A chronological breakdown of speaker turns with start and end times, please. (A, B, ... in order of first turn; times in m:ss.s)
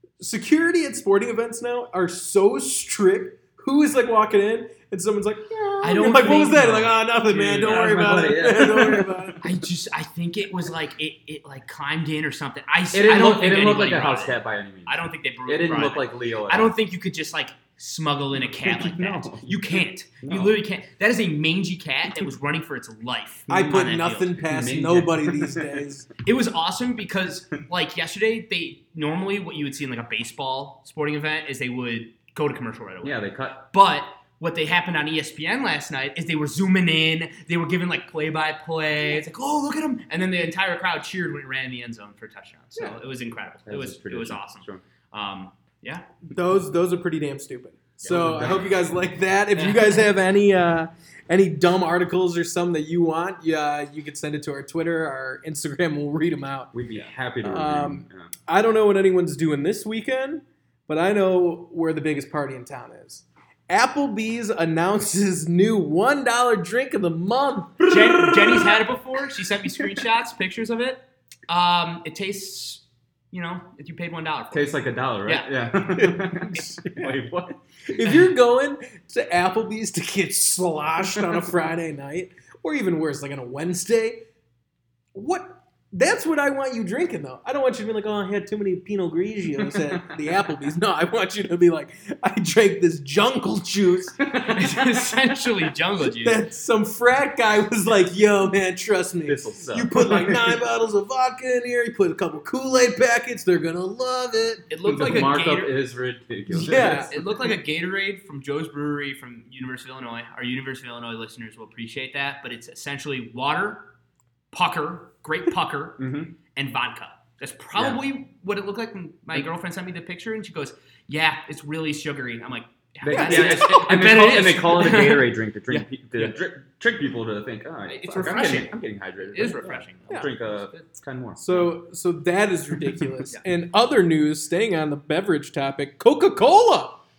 0:00.2-0:09.4 A
0:05.8-0:07.9 B
0:07.3-0:09.5 C
0:09.4-0:24.4 B
0:12.9-0:16.8 C
0:18.4-0:20.6 C
0:23.5-0:23.8 C
0:23.5-0:26.1 A
0:24.4-0:25.8 C
0:26.2-0:46.1 B
0:33.0-0:33.6 C
0:43.7-0:44.8 C
0:46.3-0:56.7 A
0:48.0-0:48.7 C
0:48.1-0:48.6 B
0:49.6-0:50.0 B
0:56.7-0:58.3 C
0:57.4-1:08.0 A
1:07.9-1:08.8 C
1:07.9-1:15.5 B
1:14.5-1:17.6 C
1:16.1-1:17.1 A
1:17.9-1:24.3 A
1:25.2-1:34.5 A
1:29.7-1:30.3 C
1:34.2-1:34.7 C
1:34.4-1:36.4 B
1:36.1-1:44.7 A
1:39.3-1:40.6 C
1:44.7-1:45.8 B
1:44.8-1:47.1 C
1:46.5-1:47.2 A
1:46.6-1:53.9 B
1:54.5-2:06.4 B
1:56.0-1:56.4 C
1:57.8-1:58.0 C
2:03.0-2:11.6 C
2:03.1-2:03.9 A
2:07.9-2:10.8 B
2:11.4-2:17.0 A